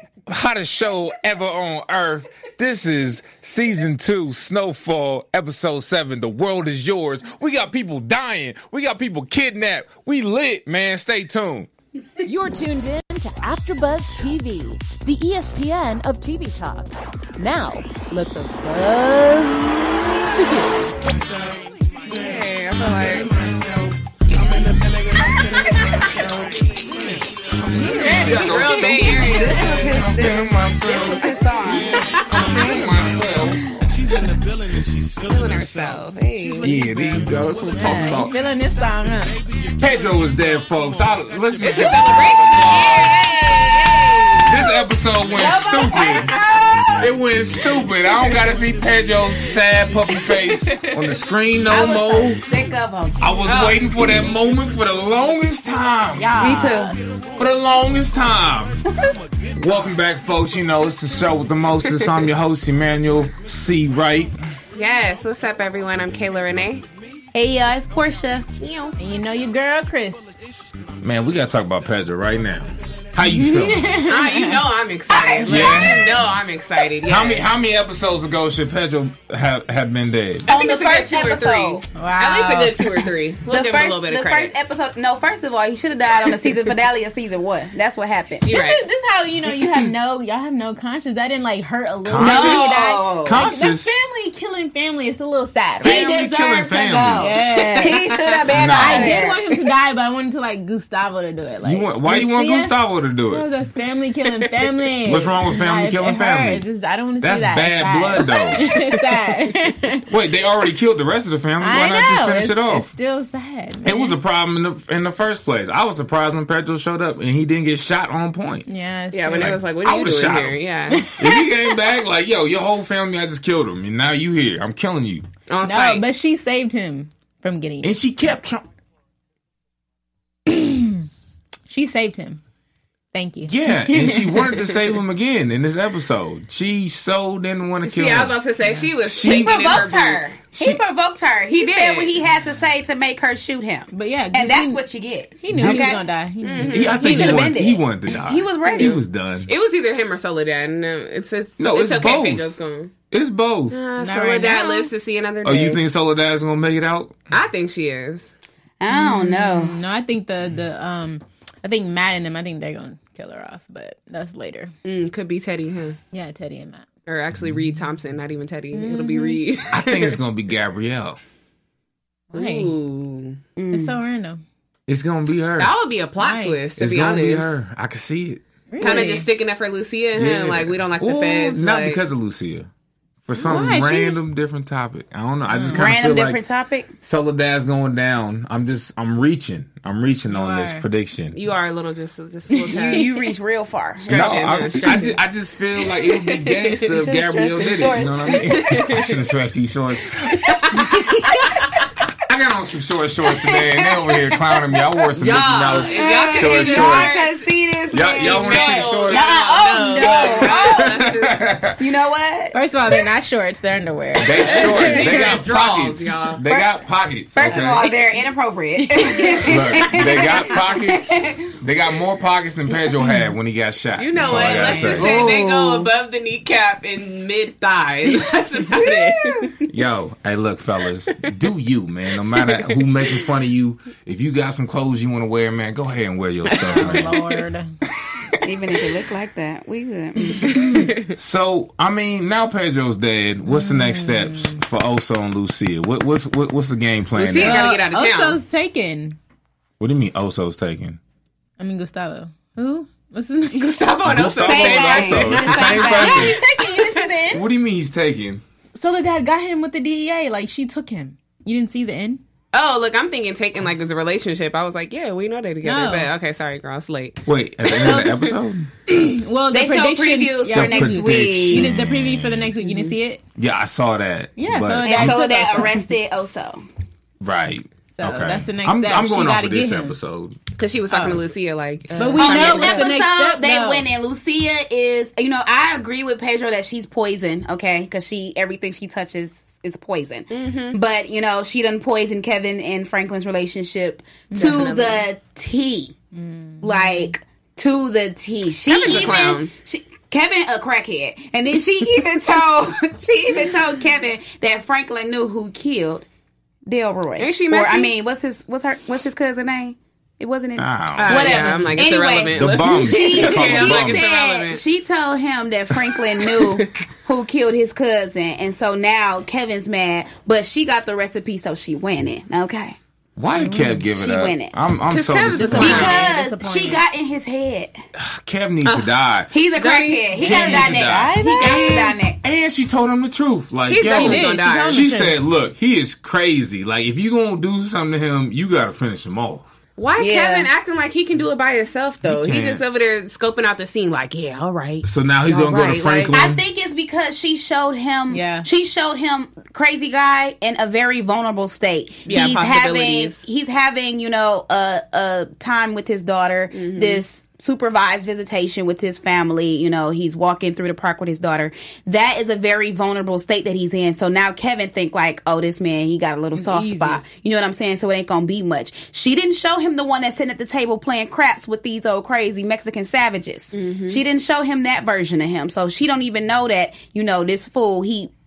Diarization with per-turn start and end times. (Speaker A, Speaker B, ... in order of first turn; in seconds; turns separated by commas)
Speaker A: 0.3-11.7, Speaker B: 12.2-20.7, Speaker C: 22.1-23.3, Speaker D: 23.4-27.3, Speaker E: 27.7-28.3, Speaker D: 28.0-28.5, Speaker C: 28.0-30.0, Speaker A: 28.0-31.4, Speaker F: 28.8-32.1, Speaker D: 31.9-38.3, Speaker A: 32.3-33.7, Speaker C: 35.2-36.7, Speaker A: 36.6-38.4, Speaker E: 37.7-39.4, Speaker D: 39.4-40.2, Speaker A: 39.8-43.3, Speaker C: 41.6-44.8, Speaker A: 44.4-46.3, Speaker F: 45.4-47.1, Speaker C: 45.9-46.3, Speaker A: 47.0-52.5, Speaker C: 50.4-51.1, Speaker F: 51.7-53.4, Speaker A: 53.2-56.5, Speaker C: 53.5-53.8, Speaker E: 56.1-57.1, Speaker F: 56.4-57.0, Speaker A: 57.4-58.8, Speaker A: 59.5-64.5, Speaker C: 64.8-66.8, Speaker F: 67.3-68.5, Speaker C: 68.6-69.0, Speaker E: 69.0-70.2, Speaker A: 71.0-74.0, Speaker E: 73.2-74.6, Speaker C: 74.1-77.5, Speaker F: 75.1-76.0, Speaker A: 75.5-76.3, Speaker A: 77.0-80.5, Speaker F: 80.5-81.8, Speaker C: 80.5-84.5, Speaker E: 82.0-83.0, Speaker F: 83.5-88.5, Speaker C: 88.5-88.8, Speaker E: 88.5-96.1, Speaker A: 92.0-93.9, Speaker F: 92.2-93.4, Speaker A: 95.8-97.3, Speaker F: 95.8-99.6, Speaker E: 97.2-98.1, Speaker C: 97.8-98.3, Speaker A: 98.5-99.2, Speaker E: 98.7-110.1, Speaker A: 101.6-103.5, Speaker A: 105.0-106.7, Speaker A: 107.2-108.7, Speaker A: 110.1-112.9, Speaker E: 111.6-114.2, Speaker A: 113.8-118.7, Speaker E: 118.7-119.6, Speaker C: 119.1-121.1, Speaker A: 119.3-120.6, Speaker E: 121.0-121.7, Speaker A: 121.1-125.3, Speaker C: 125.5-126.0, Speaker E: 125.6-127.9, Speaker A: 127.8-128.7, Speaker E: 130.5-131.1, Speaker E: 131.7-132.4, Speaker E: 133.1-134.4, Speaker A: 133.4-138.4, Speaker C: 137.8-140.4, Speaker A: 139.0-139.9, Speaker F: 139.2-146.1, Speaker A: 140.5-140.8, Speaker C: 141.5-142.2, Speaker E: 143.9-144.8, Speaker E: 145.4-147.5, Speaker A: 145.5-145.8, Speaker C: 146.4-147.3, Speaker A: 146.6-149.5, Speaker F: 147.0-149.0, Speaker C: 148.7-152.9, Speaker A: 151.6-152.6, Speaker A: 153.1-153.8, Speaker C: 153.7-155.8, Speaker E: 154.0-154.9, Speaker A: 155.4-157.2, Speaker C: 157.3-158.3, Speaker F: 158.8-159.8, Speaker E: 158.9-164.7, Speaker C: 164.8-166.0, Speaker E: 166.1-166.8, Speaker C: 167.1-170.2, Speaker E: 168.7-169.4, Speaker A: 169.7-171.2, Speaker E: 172.3-172.7, Speaker C: 172.3-173.4, Speaker F: 173.6-174.0, Speaker E: 173.7-174.4, Speaker A: 174.9-175.7, Speaker C: 175.6-177.6, Speaker E: 176.2-176.6, Speaker A: 176.8-178.4, Speaker E: 178.7-179.3, Speaker F: 178.8-179.1, Speaker C: 178.8-182.0, Speaker A: 180.2-182.7, Speaker A: 183.2-186.4, Speaker E: 183.4-184.2, Speaker E: 185.5-185.9, Speaker F: 185.7-186.9, Speaker A: 187.0-191.4, Speaker E: 190.3-190.8, Speaker C: 191.3-193.2, Speaker E: 192.5-193.1, Speaker F: 192.8-195.0, Speaker C: 194.0-195.2, Speaker A: 194.1-201.0, Speaker C: 195.8-196.9, Speaker F: 196.9-198.8, Speaker C: 198.5-199.2, Speaker F: 200.7-201.5, Speaker A: 202.2-207.2, Speaker F: 203.4-204.4, Speaker C: 205.2-207.5, Speaker F: 205.9-211.1, Speaker A: 207.9-209.3, Speaker C: 208.2-211.5, Speaker A: 210.0-211.8, Speaker F: 211.8-212.6, Speaker E: 212.5-215.0, Speaker A: 214.2-218.0, Speaker C: 214.5-216.4, Speaker F: 216.5-216.7, Speaker F: 217.3-221.3, Speaker E: 218.8-219.9, Speaker A: 219.4-225.2, Speaker C: 224.0-229.5, Speaker F: 224.3-225.9, Speaker F: 229.1-229.6, Speaker A: 229.7-237.1, Speaker C: 232.5-232.9, Speaker C: 236.5-237.4, Speaker E: 236.6-237.7, Speaker F: 238.4-240.9, Speaker C: 240.4-241.1, Speaker A: 241.1-247.7, Speaker E: 243.5-244.6, Speaker C: 247.2-248.4, Speaker E: 247.3-249.2, Speaker A: 249.8-251.0, Speaker E: 251.6-253.8, Speaker C: 253.6-257.0, Speaker A: 254.1-256.4, Speaker F: 254.4-256.4, Speaker E: 255.3-257.5, Speaker A: 257.3-258.4, Speaker E: 258.8-262.2, Speaker C: 262.5-267.2, Speaker E: 265.6-266.1, Speaker A: 267.3-268.7, Speaker C: 267.8-268.2, Speaker E: 268.9-273.2, Speaker F: 269.5-271.7, Speaker A: 270.5-272.5, Speaker F: 272.6-272.9, Speaker A: 273.4-275.2, Speaker E: 274.4-275.9, Speaker F: 274.8-276.6, Speaker A: 277.2-280.4, Speaker E: 277.9-279.9, Speaker C: 280.6-282.9, Speaker E: 280.9-281.2, Speaker E: 282.0-283.8, Speaker F: 282.2-295.9, Speaker C: 290.3-290.8, Speaker E: 294.3-294.7, Speaker C: 294.3-295.1, Speaker E: 296.1-297.1, Speaker F: 296.6-306.1, Speaker C: 298.7-299.5, Speaker F: 306.7-322.8, Speaker C: 307.2-307.9, Speaker A: 310.6-311.7, Speaker C: 311.0-314.6, Speaker A: 312.3-314.1, Speaker C: 316.4-316.7, Speaker A: 323.2-326.1, Speaker E: 323.4-323.8, Speaker F: 323.9-324.5, Speaker C: 324.9-326.1, Speaker E: 325.4-326.8, Speaker F: 325.5-327.8, Speaker A: 327.9-329.3, Speaker C: 328.6-328.9, Speaker F: 329.3-332.2, Speaker C: 329.5-330.1, Speaker E: 330.1-331.9, Speaker A: 330.2-339.5, Speaker C: 333.7-334.9, Speaker E: 333.8-335.2, Speaker C: 339.8-346.1, Speaker F: 340.0-340.5, Speaker A: 342.0-342.6, Speaker A: 344.8-346.4, Speaker F: 346.1-378.1, Speaker E: 348.1-348.5, Speaker C: 352.1-353.2, Speaker C: 356.5-357.0, Speaker E: 366.4-367.0, Speaker C: 373.5-374.0